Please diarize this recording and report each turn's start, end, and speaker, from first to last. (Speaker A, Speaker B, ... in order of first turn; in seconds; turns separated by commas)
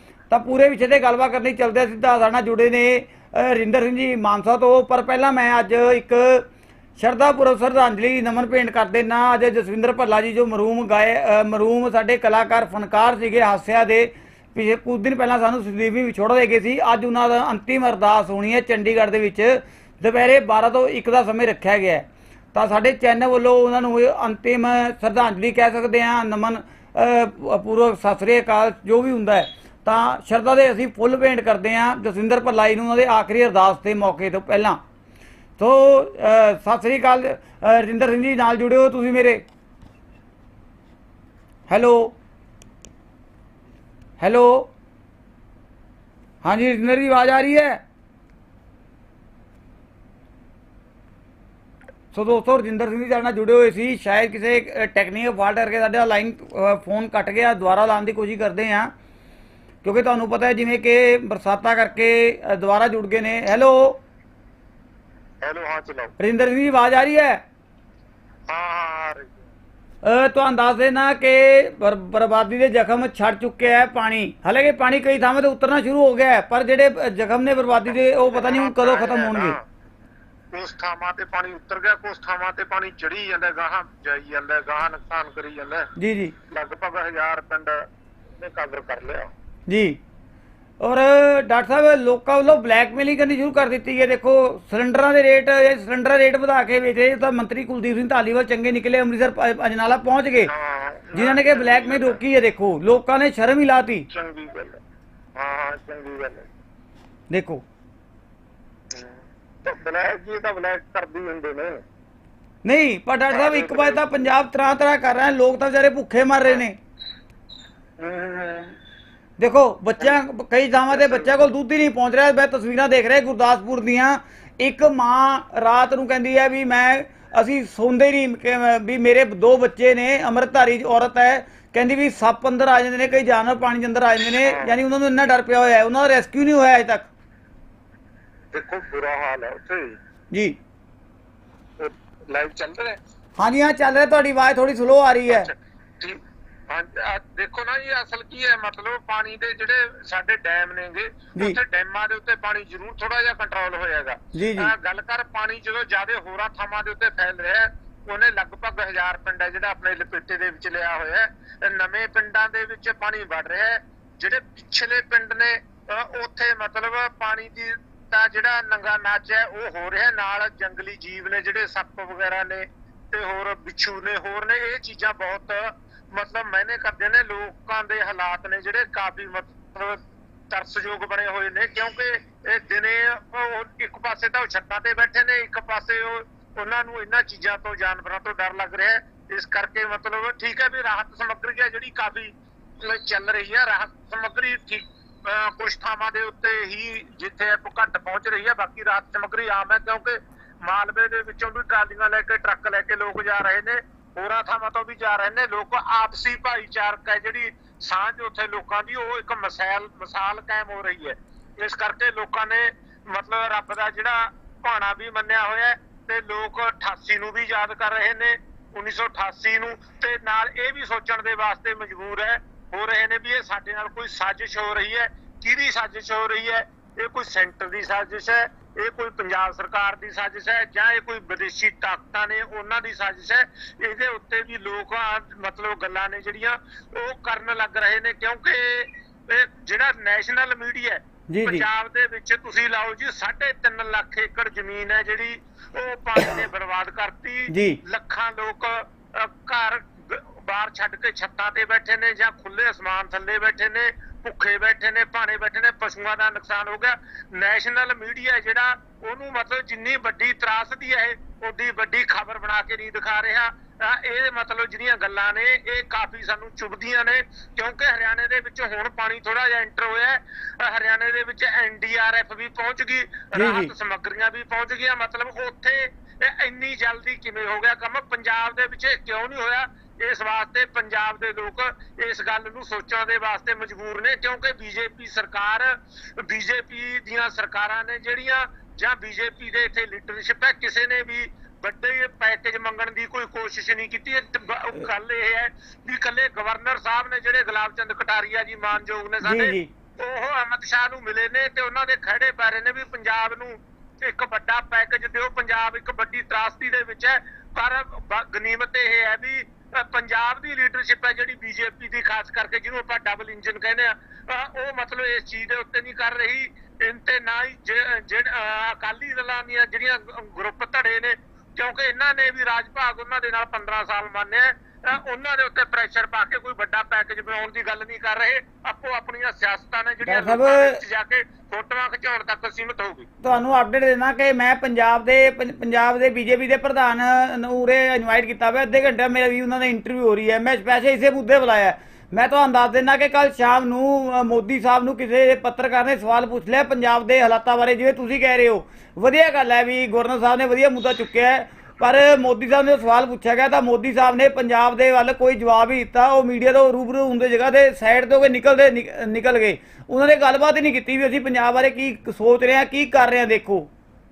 Speaker A: 0.3-6.5, Speaker A: 7.0-34.8, Speaker A: 35.6-39.4, Speaker A: 41.7-42.1, Speaker A: 44.2-44.7, Speaker A: 46.4-47.8, Speaker A: 52.1-58.9, Speaker A: 59.8-64.0, Speaker B: 65.4-66.1, Speaker A: 66.2-67.4, Speaker B: 68.5-69.5, Speaker A: 70.0-79.6, Speaker B: 77.9-79.7, Speaker B: 80.5-85.9, Speaker A: 86.0-86.3, Speaker B: 86.5-87.9, Speaker B: 88.4-89.3, Speaker A: 89.7-90.0, Speaker A: 90.8-100.5, Speaker B: 100.5-102.2, Speaker A: 101.2-104.1, Speaker B: 104.1-104.8, Speaker B: 105.4-106.5, Speaker A: 107.3-107.6, Speaker B: 108.9-111.8, Speaker A: 112.7-116.8, Speaker B: 113.3-114.0, Speaker B: 118.0-118.8, Speaker A: 119.4-137.1, Speaker B: 120.9-121.4, Speaker B: 134.4-134.8, Speaker B: 138.5-140.0, Speaker B: 141.8-143.0, Speaker A: 143.4-145.5, Speaker B: 145.3-333.1, Speaker A: 154.3-154.7, Speaker A: 241.3-241.7, Speaker A: 247.5-247.8, Speaker A: 273.4-273.7, Speaker A: 299.2-299.7, Speaker A: 330.1-330.8, Speaker A: 333.2-363.7